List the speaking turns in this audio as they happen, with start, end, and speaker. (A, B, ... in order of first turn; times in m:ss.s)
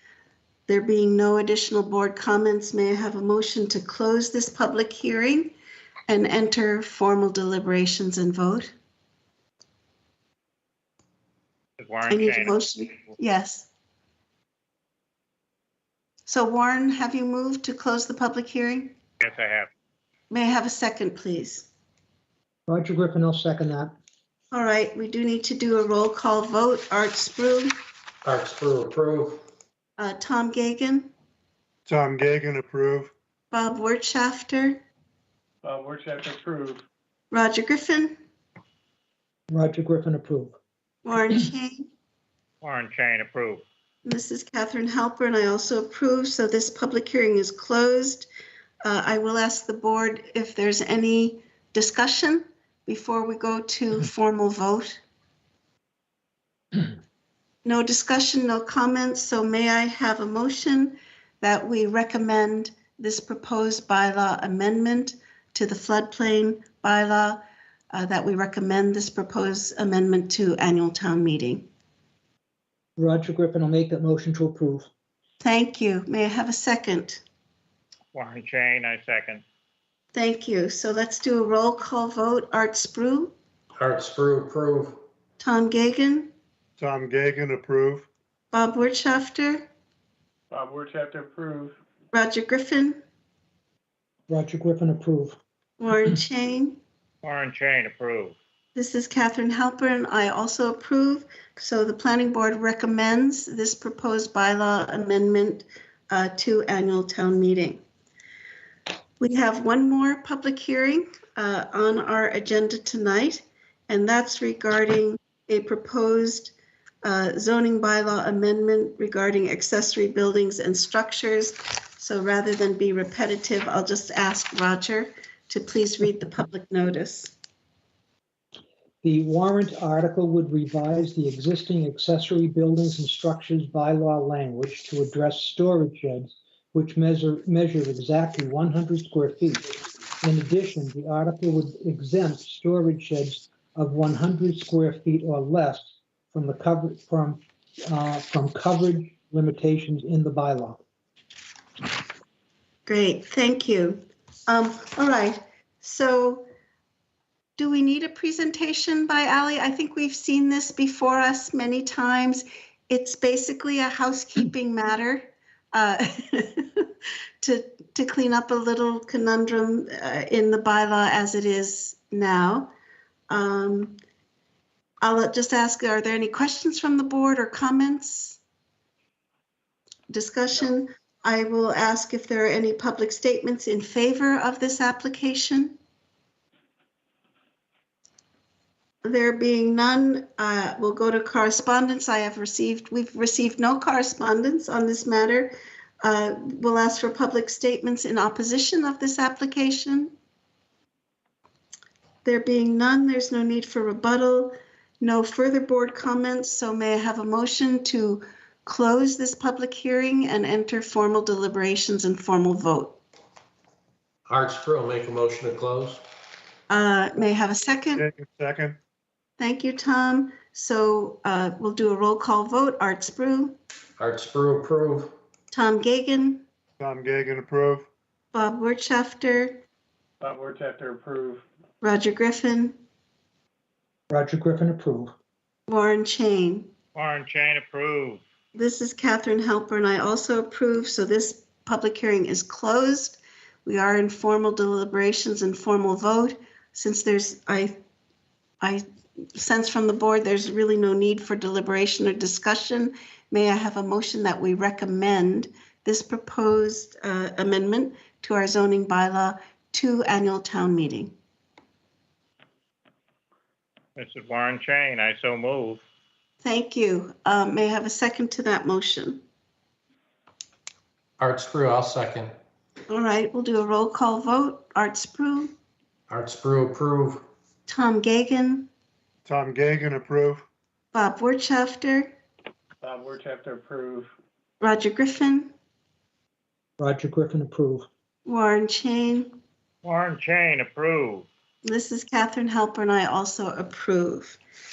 0:00.7-0:05.5 A
0:06.1-0:08.7 A
0:11.8-0:12.6 B
0:12.1-0:13.7 A
0:16.2-0:18.9 A
0:19.2-0:19.7 B
0:20.3-0:21.7 A
0:22.7-0:23.9 C
0:24.5-0:27.7 A
0:28.2-0:29.4 D
0:30.0-0:31.1 A
0:31.9-0:33.1 E
0:33.5-0:34.8 A
0:35.6-0:36.8 F
0:37.3-0:38.2 A
0:39.5-0:40.6 C
0:41.0-0:41.9 A
0:42.6-0:43.6 B
0:44.0-0:48.3 A
0:48.8-0:55.0 A
0:57.6-1:11.7 A
1:13.0-1:14.9 C
1:15.4-1:17.2 A
1:18.1-1:19.4 B
1:20.1-1:23.3 A
1:23.8-1:25.0 D
1:25.4-1:26.3 A
1:26.8-1:28.1 E
1:28.5-1:29.7 A
1:30.5-1:31.7 F
1:32.1-1:33.0 A
1:34.3-1:35.4 C
1:35.8-1:36.8 A
1:37.2-1:38.3 B
1:38.7-1:47.8 A
1:49.2-2:07.3 A
2:09.0-2:19.6 C
2:20.2-2:30.8 C
2:32.8-2:36.4 A
2:37.6-2:46.9 A
2:47.4-2:52.7 A
2:53.3-2:54.0 A
2:55.0-2:58.4 A
3:00.1-3:05.8 A
3:09.0-3:20.1 A
3:22.2-3:33.0 A
3:34.3-3:36.0 D
3:36.7-3:38.0 A
3:37.9-3:38.8 E
3:39.4-3:43.6 A
3:44.0-3:45.1 D
3:45.5-3:46.4 A
3:46.8-3:47.9 E
3:48.3-3:49.6 A
3:50.2-3:51.4 F
3:51.8-3:52.8 A
3:54.1-3:55.1 C
3:55.7-3:56.7 A
3:56.9-3:58.2 B
3:58.5-4:07.8 A
4:08.6-4:21.1 A
4:24.0-4:25.8 B
4:26.4-4:29.2 A
4:31.2-4:32.3 D
4:32.9-4:35.5 A
4:36.1-4:37.2 D
4:37.7-4:38.7 A
4:39.2-4:40.4 E
4:40.9-4:42.1 A
4:42.8-4:44.1 F
4:44.6-4:45.5 A
4:46.8-4:47.9 C
4:48.2-4:49.3 A
4:49.8-4:51.2 B
4:51.6-4:54.4 A